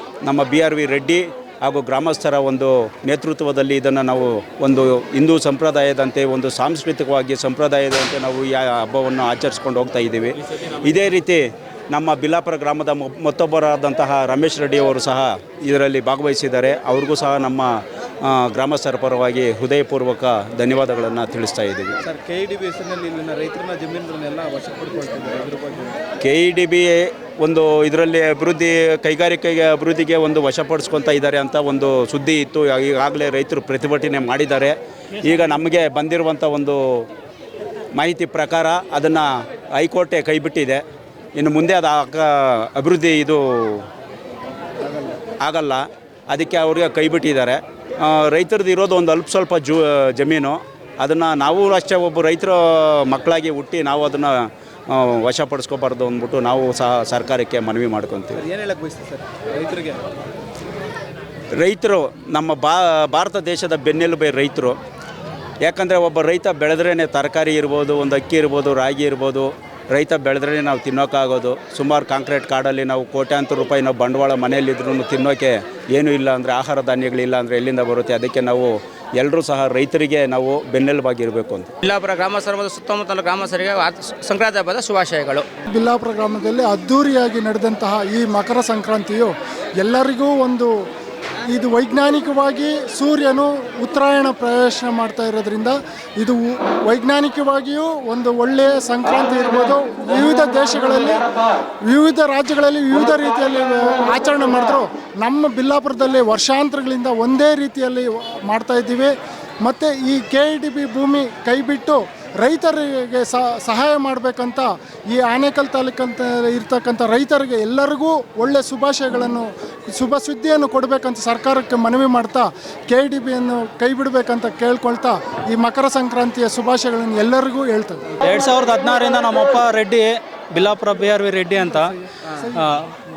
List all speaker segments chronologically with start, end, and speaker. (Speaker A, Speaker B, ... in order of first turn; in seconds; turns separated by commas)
Speaker A: 0.2-17.7, Speaker A: 18.2-21.9, Speaker B: 22.0-26.0, Speaker A: 26.2-37.1, Speaker A: 38.0-40.8, Speaker A: 41.4-43.9, Speaker A: 45.4-58.4, Speaker B: 58.4-60.1, Speaker A: 61.5-64.8, Speaker A: 65.6-81.7, Speaker C: 81.8-85.5, Speaker D: 85.7-90.7, Speaker D: 91.5-101.2, Speaker D: 101.9-128.1, Speaker E: 128.2-132.9